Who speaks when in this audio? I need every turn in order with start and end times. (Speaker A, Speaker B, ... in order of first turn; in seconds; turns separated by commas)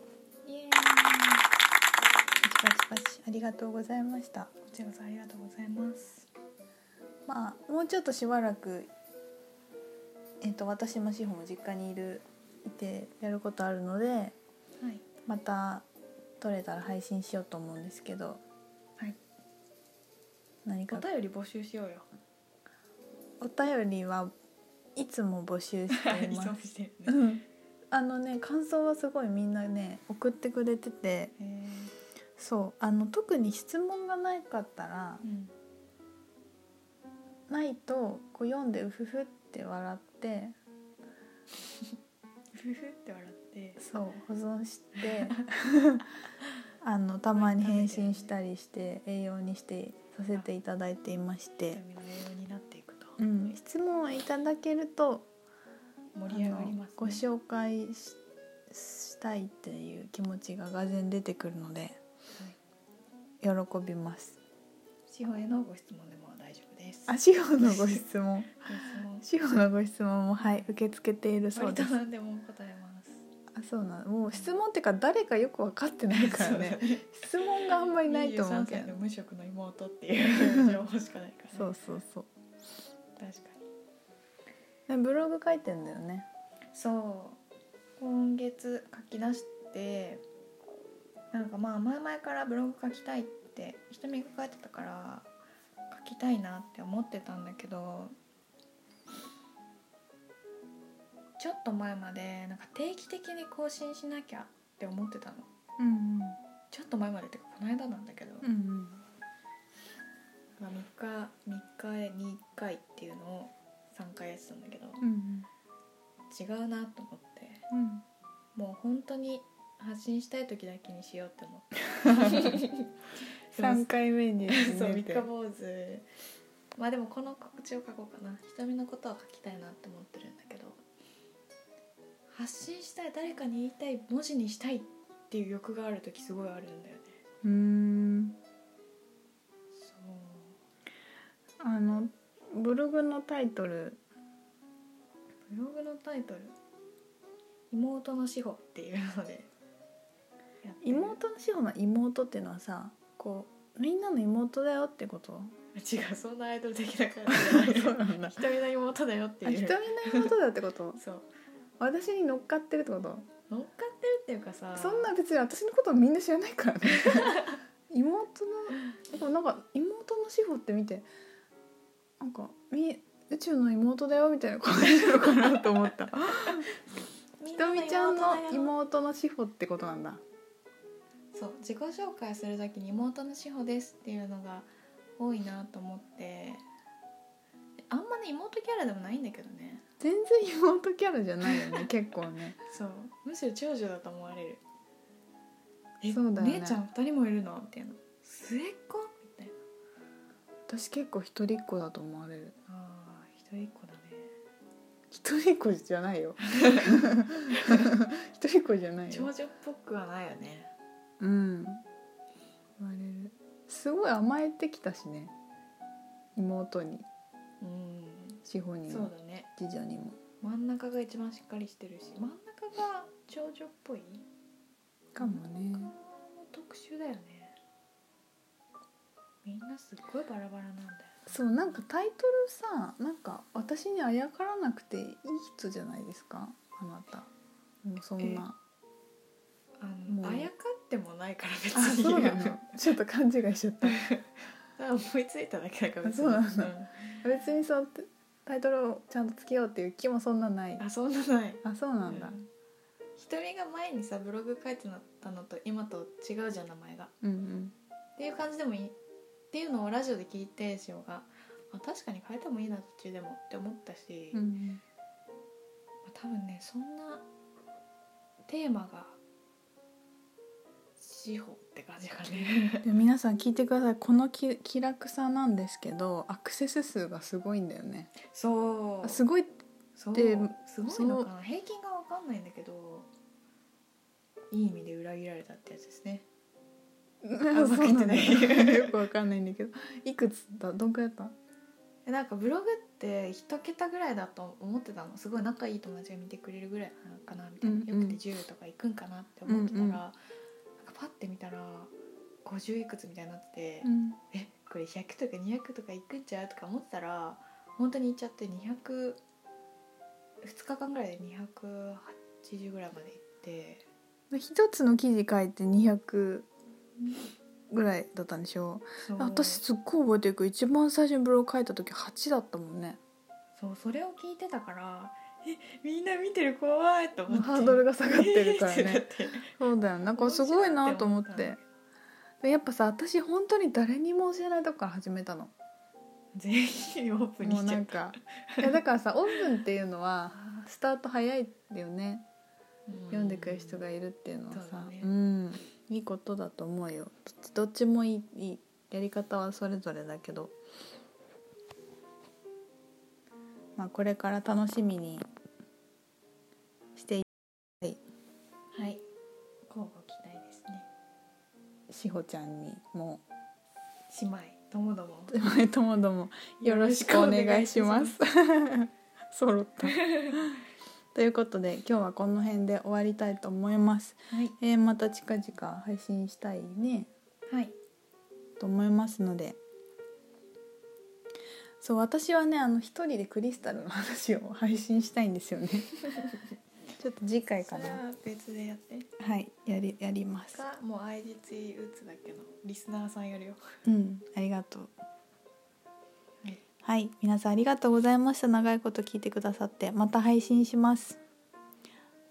Speaker A: 0.5-1.4, Speaker B: 2.4-4.5, Speaker A: 4.7-6.3, Speaker B: 7.3-8.9, Speaker B: 10.4-14.4, Speaker A: 14.8-15.1, Speaker B: 15.2-15.8, Speaker B: 16.4-18.4, Speaker B: 20.6-21.1, Speaker A: 20.9-22.1, Speaker B: 23.4-24.3, Speaker B: 25.0-31.3, Speaker A: 25.9-27.2, Speaker A: 31.4-31.9, Speaker B: 32.4-35.2, Speaker A: 35.2-35.5, Speaker B: 37.5-40.5, Speaker A: 42.5-43.8, Speaker B: 43.8-46.0, Speaker B: 46.8-51.8, Speaker A: 47.3-48.4, Speaker A: 51.7-53.5, Speaker B: 53.2-55.3, Speaker A: 56.1-57.2, Speaker B: 56.3-58.2, Speaker B: 58.7-62.0, Speaker B: 63.4-64.4, Speaker A: 65.1-68.0, Speaker B: 67.1-68.7, Speaker A: 68.6-69.3, Speaker B: 69.2-71.9, Speaker A: 71.5-73.2, Speaker B: 73.5-79.0, Speaker A: 76.1-81.7, Speaker B: 80.5-80.8, Speaker B: 81.5-82.3, Speaker A: 83.2-83.6, Speaker B: 84.9-86.3, Speaker A: 86.7-87.4, Speaker A: 88.0-90.2, Speaker A: 91.3-95.3, Speaker A: 95.9-98.1, Speaker A: 101.4-105.5, Speaker B: 105.8-106.4, Speaker A: 106.7-108.5, Speaker B: 108.4-109.0, Speaker A: 110.6-115.0, Speaker B: 115.0-115.5, Speaker A: 116.3-117.7, Speaker B: 117.7-118.0, Speaker A: 118.5-122.9, Speaker A: 123.5-123.9, Speaker B: 123.6-125.3, Speaker A: 124.5-126.1, Speaker A: 126.8-130.8, Speaker A: 132.3-137.2, Speaker B: 137.4-138.4, Speaker A: 139.8-140.6, Speaker B: 141.6-144.0, Speaker A: 145.5-146.6, Speaker A: 147.7-149.5, Speaker A: 150.6-151.2, Speaker B: 150.8-155.5, Speaker A: 155.8-160.3, Speaker B: 157.3-158.4, Speaker B: 159.4-161.0, Speaker A: 161.0-161.3, Speaker B: 161.8-163.3, Speaker A: 163.5-165.1, Speaker B: 164.8-171.1, Speaker A: 167.1-167.6, Speaker B: 172.2-176.7, Speaker A: 177.4-178.7, Speaker B: 177.6-180.2, Speaker A: 181.3-186.6, Speaker A: 187.9-189.8, Speaker B: 190.0-192.6, Speaker A: 191.5-191.9, Speaker A: 192.7-194.6, Speaker A: 196.0-199.6, Speaker B: 196.1-196.8, Speaker B: 200.7-202.6, Speaker A: 202.7-204.3, Speaker B: 205.1-209.3, Speaker A: 206.5-207.9, Speaker A: 209.1-210.7, Speaker B: 211.2-211.8, Speaker B: 212.8-215.3, Speaker B: 216.4-217.1, Speaker A: 217.6-219.5, Speaker B: 218.4-220.2, Speaker A: 220.4-224.3, Speaker B: 225.2-225.9, Speaker A: 225.2-227.6, Speaker A: 229.4-231.3, Speaker B: 231.3-237.3, Speaker B: 237.8-238.6, Speaker A: 238.2-238.4, Speaker A: 239.8-242.8, Speaker B: 240.1-240.5, Speaker B: 241.8-244.0, Speaker A: 243.8-247.2, Speaker B: 246.0-250.8, Speaker A: 250.8-252.5, Speaker B: 251.6-252.4, Speaker A: 253.2-257.1, Speaker B: 257.2-257.8, Speaker A: 258.2-259.0, Speaker A: 259.5-264.4, Speaker B: 264.3-264.8, Speaker A: 266.1-267.2, Speaker A: 268.5-269.2, Speaker A: 271.0-272.9, Speaker B: 272.8-278.1, Speaker A: 278.2-279.2, Speaker B: 279.0-279.6, Speaker A: 280.0-283.1, Speaker B: 280.1-281.3, Speaker A: 284.5-286.3, Speaker B: 287.2-291.3, Speaker A: 287.5-289.1, Speaker A: 292.1-300.2, Speaker B: 297.6-298.2, Speaker B: 299.5-300.0, Speaker A: 300.8-309.2, Speaker B: 303.8-304.2, Speaker A: 310.4-313.9, Speaker B: 314.3-316.5, Speaker B: 317.7-323.0, Speaker A: 319.0-319.6, Speaker A: 323.6-329.5, Speaker B: 327.3-331.6, Speaker A: 330.1-331.7, Speaker B: 332.4-335.5, Speaker A: 336.4-338.7, Speaker B: 337.4-342.2, Speaker A: 340.4-340.7, Speaker A: 342.9-343.9, Speaker B: 343.1-350.6, Speaker A: 344.5-345.1, Speaker B: 353.8-355.2, Speaker B: 357.0-357.2, Speaker A: 358.7-359.0, Speaker A: 359.7-360.9, Speaker B: 361.9-363.2, Speaker A: 364.1-365.3, Speaker B: 365.3-370.6, Speaker A: 366.6-368.2, Speaker A: 369.8-370.4, Speaker B: 371.1-377.1, Speaker A: 377.5-377.8, Speaker B: 378.6-379.6, Speaker B: 381.8-386.0, Speaker B: 387.0-388.0, Speaker A: 387.6-389.1, Speaker B: 389.2-390.6, Speaker A: 390.5-393.6, Speaker B: 393.9-394.9, Speaker B: 396.8-401.2